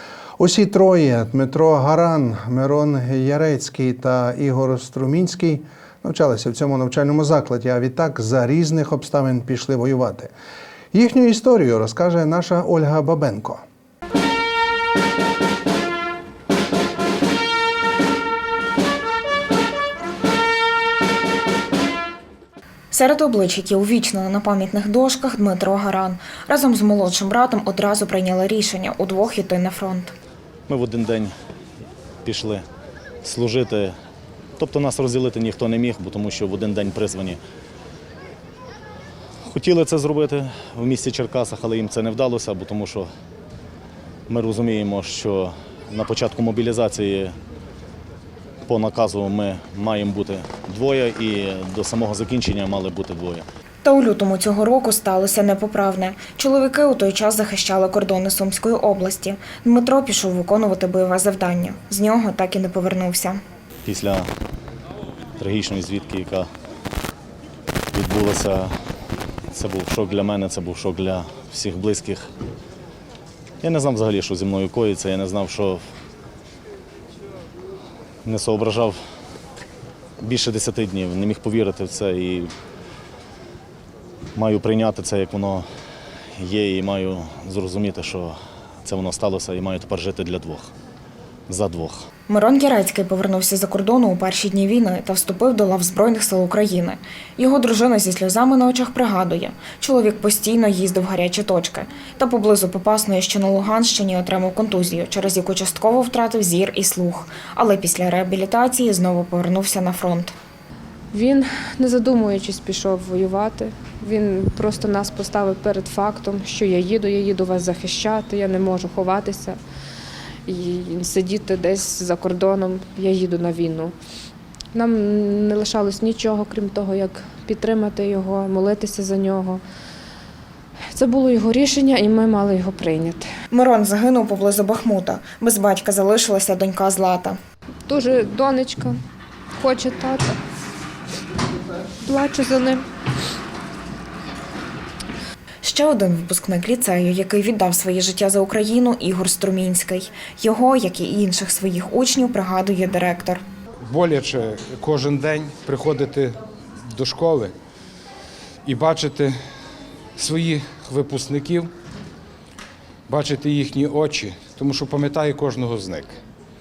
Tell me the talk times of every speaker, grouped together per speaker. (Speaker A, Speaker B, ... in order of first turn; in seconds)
Speaker A: 0.4-10.3, 10.9-13.6
Speaker B: 22.9-30.1, 53.8-63.4, 92.3-110.3, 133.5-137.4, 145.6-153.4
Speaker C: 30.7-31.3, 32.2-32.6, 33.2-33.9, 34.6-37.4, 39.5-43.1, 44.3-47.3, 48.6-53.5, 63.9-64.3, 65.4-66.5, 67.9-68.7, 69.5-72.2, 73.6-75.8, 78.2-79.0, 80.2-82.5, 84.3-85.6, 86.4-90.7, 91.5-92.0
Speaker D: 111.1-119.6, 120.5-123.9, 124.7-129.6, 130.9-133.2, 137.9-139.0, 139.6-140.4, 142.0-142.8
Speaker E: 153.8-156.4, 156.9-157.5, 158.6-159.3, 160.2-161.7, 163.1-166.2